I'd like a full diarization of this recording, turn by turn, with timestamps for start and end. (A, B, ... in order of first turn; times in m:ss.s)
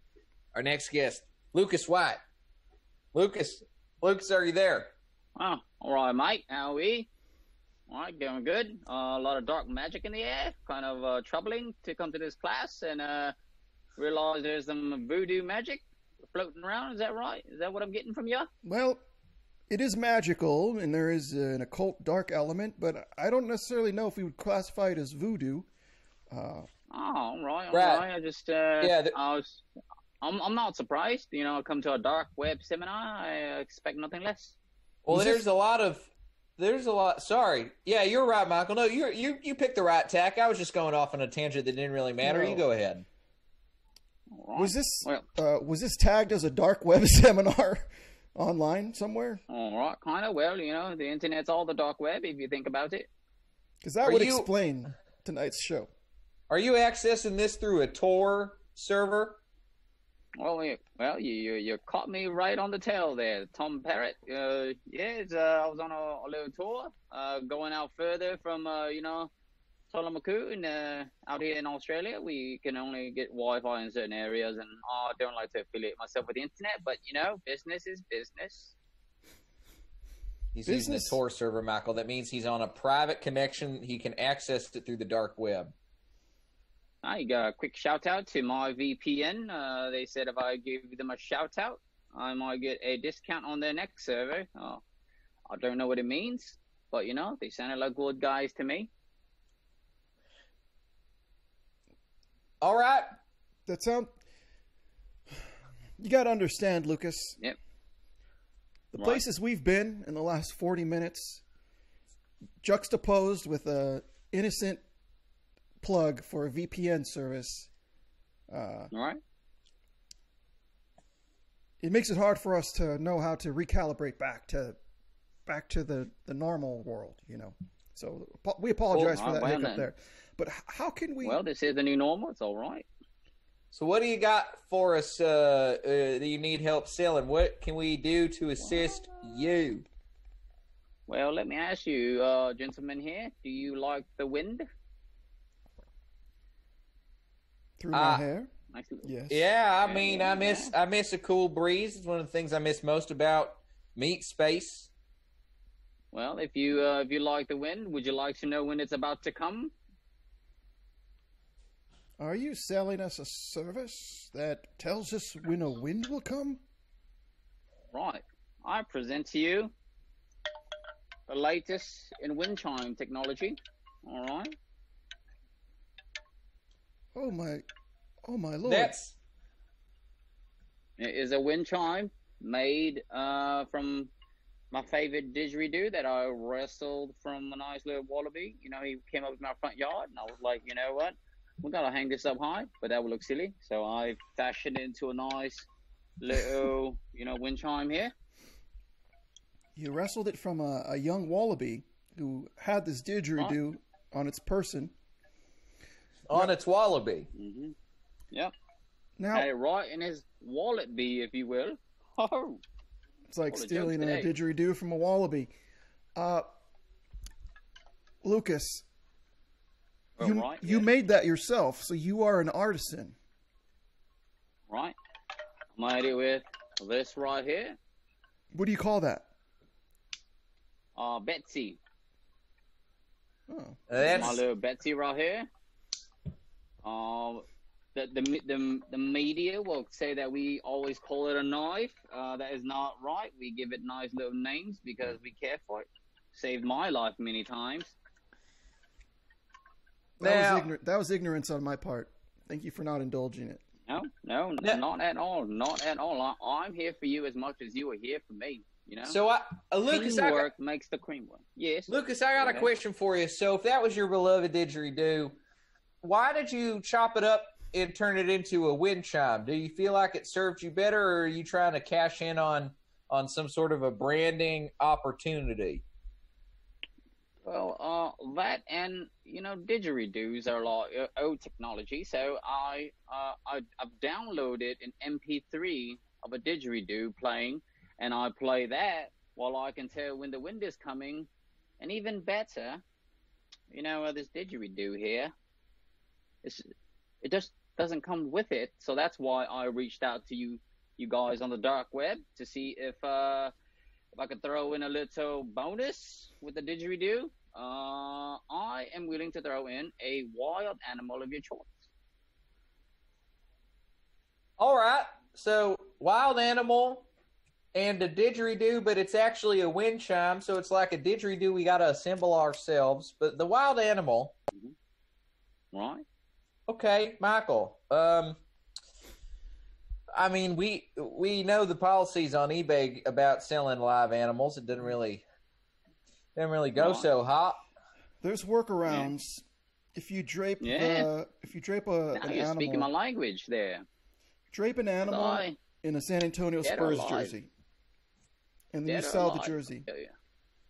0:00.5-0:02.2 A
0:03.1-0:04.9 A
0:05.4-0:07.1 B
0:07.9-0:13.3 B
0:14.0-0:18.5 B
0:18.6-0:19.0 C
0:19.7-0:25.7 C
0:26.3-0:26.7 C
0:26.9-0:29.6 B
0:27.7-0:28.1 A
0:28.8-0:29.2 A
0:30.2-0:34.6 B
0:35.0-0:43.0 A
0:35.1-0:35.4 C
0:42.2-0:42.7 C
0:44.3-0:45.2 B
0:44.6-0:49.4 C
0:49.5-0:53.1 B
0:53.8-0:55.9 C
0:54.0-0:54.5 A
0:56.5-0:59.4 A
1:00.4-1:09.3 B
1:09.9-1:18.8 B
1:20.5-1:25.7 A
1:20.7-1:21.2 C
1:27.0-1:34.8 B
1:35.5-1:38.9 B
1:42.6-1:43.1 A
1:43.7-1:44.1 C
1:46.0-1:47.4 C
1:48.9-1:51.4 C
1:49.0-1:49.2 B
1:52.6-1:54.8 C
1:55.8-1:57.7 C
1:58.5-1:58.9 C
1:58.9-1:59.2 B
2:01.8-2:04.8 C
2:05.5-2:11.4 C
2:08.9-2:09.9 B
2:11.2-2:12.9 B
2:13.7-2:19.8 A
2:21.1-2:24.6 B
2:27.8-2:28.5 C
2:27.9-2:28.2 A
2:28.7-2:29.1 B
2:29.0-2:29.5 C
2:29.3-2:34.9 A
2:29.8-2:30.7 B
2:36.1-2:39.7 B
2:42.2-2:46.6 C
2:47.9-2:49.7 B
2:51.3-2:54.6 B
2:57.1-2:57.6 C
2:58.3-2:58.9 C
2:58.6-2:59.1 A
3:01.0-3:04.1 B
3:04.7-3:15.7 B
3:16.2-3:18.1 B
3:19.8-3:24.9 C
3:26.3-3:27.3 A
3:27.3-3:27.8 B
3:29.2-3:29.5 C
3:29.3-3:32.6 B
3:33.3-3:35.5 C
3:33.5-3:34.3 B
3:36.2-3:36.5 C
3:38.2-3:38.8 C
3:40.2-3:40.9 B
3:40.2-3:43.2 C
3:44.7-3:45.0 B
3:45.8-3:47.8 B
3:48.5-3:49.3 C
3:51.0-3:51.8 B
3:53.5-3:54.3 C
3:53.9-3:54.4 A
3:54.0-3:55.5 B
3:56.8-4:08.0 B
4:10.2-4:13.6 C
4:10.2-4:10.7 A
4:13.9-4:19.2 B
4:19.0-4:20.5 A
4:19.9-4:22.7 B
4:21.9-4:25.4 A
4:26.0-4:35.8 A
4:37.4-4:51.3 B
4:51.8-4:52.8 B
4:53.7-4:55.3 B
4:56.4-4:56.7 B
4:57.2-5:03.5 B
5:04.2-5:11.9 B
5:14.6-5:17.1 A
5:17.7-5:24.3 A
5:25.7-5:26.0 B
5:26.7-5:28.4 A
5:30.2-5:35.2 A
5:36.4-5:37.6 A
5:36.7-5:37.1 B
5:38.2-5:39.4 C
5:40.0-5:42.9 C
5:40.6-5:41.1 B
5:42.2-5:43.8 B
5:44.5-5:47.5 C
5:45.0-5:45.6 B
5:46.6-5:47.4 B
5:48.7-5:49.9 C
5:48.8-5:50.1 B